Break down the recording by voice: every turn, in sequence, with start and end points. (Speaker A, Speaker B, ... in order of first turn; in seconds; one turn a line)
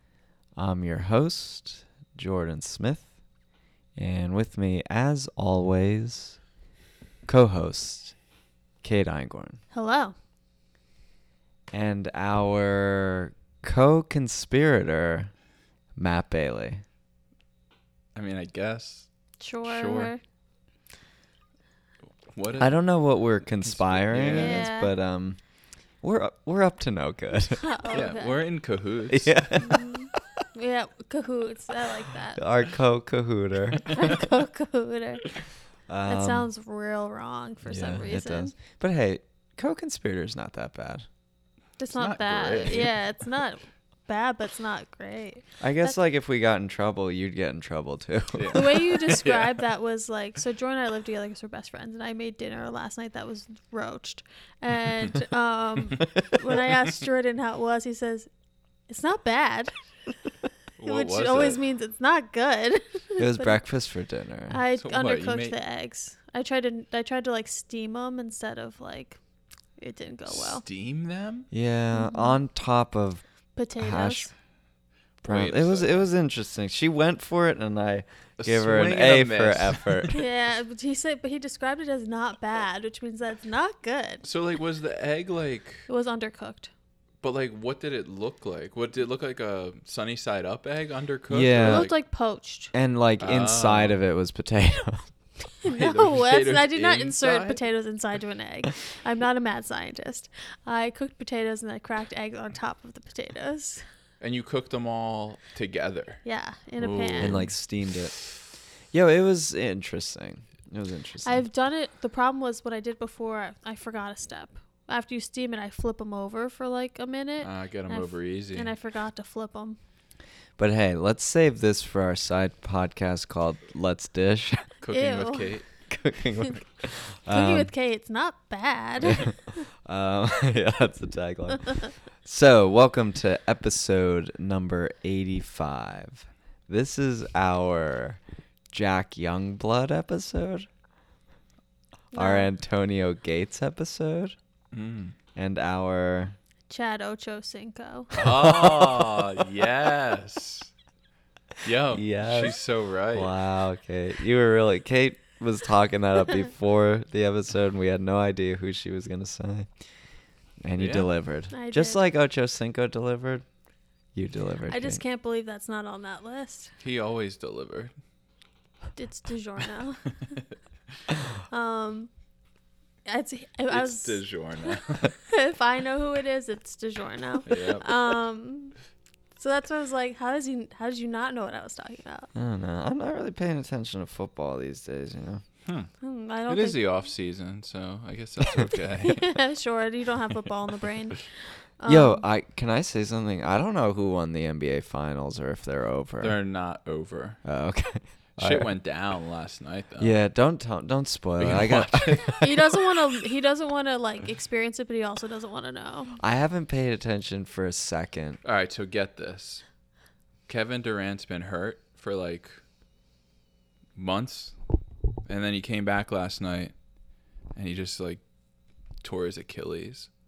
Speaker A: 0.6-3.1
Speaker A: 4.0-6.4
Speaker A: 7.2-8.1
Speaker A: 8.8-9.6
Speaker B: 9.7-10.1
Speaker A: 11.7-15.3
Speaker A: 15.9-16.8
Speaker C: 18.1-19.1
Speaker B: 19.4-20.2
Speaker C: 19.6-20.1
Speaker C: 22.3-22.8
Speaker A: 22.6-25.4
Speaker C: 23.6-24.6
Speaker B: 24.3-24.9
Speaker A: 26.0-27.6
Speaker B: 27.5-28.4
Speaker C: 27.9-29.5
Speaker A: 29.1-30.1
Speaker B: 29.6-32.4
Speaker A: 32.4-34.2
Speaker B: 33.9-35.3
Speaker A: 35.9-36.5
Speaker B: 36.0-38.5
Speaker A: 37.6-41.0
Speaker B: 41.8-46.0
Speaker C: 41.9-42.9
Speaker A: 45.6-48.7
Speaker C: 48.3-49.6
Speaker B: 48.5-58.3
Speaker B: 58.9-59.7
Speaker C: 60.8-61.6
Speaker B: 60.9-63.6
Speaker A: 63.2-64.6
Speaker B: 64.5-69.2
Speaker C: 64.8-65.5
Speaker B: 69.8-70.6
Speaker C: 70.3-71.5
Speaker A: 71.5-73.2
Speaker B: 71.9-72.4
Speaker B: 73.5-74.3
Speaker A: 73.8-74.3
Speaker C: 75.2-76.0
Speaker A: 75.2-80.1
Speaker C: 78.4-80.2
Speaker B: 80.1-84.2
Speaker C: 84.2-85.9
Speaker B: 85.9-86.7
Speaker C: 87.2-91.9
Speaker A: 91.3-91.9
Speaker B: 91.6-92.7
Speaker A: 92.7-95.1
Speaker C: 93.2-94.0
Speaker B: 95.6-103.8
Speaker C: 95.6-97.6
Speaker C: 104.2-106.2
Speaker B: 106.2-107.4
Speaker C: 106.8-107.5
Speaker A: 107.2-108.2
Speaker A: 108.9-111.4
Speaker B: 111.2-119.8
Speaker C: 117.4-118.7
Speaker A: 120.6-124.7
Speaker C: 124.8-125.7
Speaker B: 124.9-125.6
Speaker A: 125.9-127.7
Speaker B: 127.3-129.7
Speaker A: 129.0-138.2
Speaker A: 138.7-140.7
Speaker B: 142.1-142.5
Speaker A: 142.1-144.3
Speaker C: 144.7-145.1
Speaker A: 145.3-146.3
Speaker B: 146.7-148.1
Speaker A: 148.1-149.3
Speaker C: 148.1-150.7
Speaker C: 151.6-153.3
Speaker A: 151.9-152.5
Speaker A: 153.1-159.7
Speaker A: 160.6-163.4
Speaker C: 160.8-161.1
Speaker B: 161.5-162.0
Speaker A: 164.1-165.0
Speaker B: 164.7-166.7
Speaker C: 166.8-167.9
Speaker B: 168.9-170.3
Speaker B: 171.5-172.1
Speaker B: 173.0-178.7
Speaker C: 173.7-175.1
Speaker C: 177.4-178.2
Speaker B: 179.3-182.3
Speaker A: 182.3-185.4
Speaker B: 186.0-186.8
Speaker C: 186.5-189.3
Speaker B: 189.0-191.3
Speaker B: 191.8-192.2
Speaker A: 191.8-196.4
Speaker C: 196.2-197.4
Speaker A: 197.4-198.7
Speaker C: 198.4-200.2
Speaker A: 200.0-202.4
Speaker C: 201.4-202.6
Speaker B: 202.4-206.2
Speaker A: 206.2-208.4
Speaker C: 208.4-209.6
Speaker C: 210.5-212.5
Speaker C: 213.9-214.5
Speaker C: 215.2-216.7
Speaker C: 217.6-218.2
Speaker C: 219.0-220.1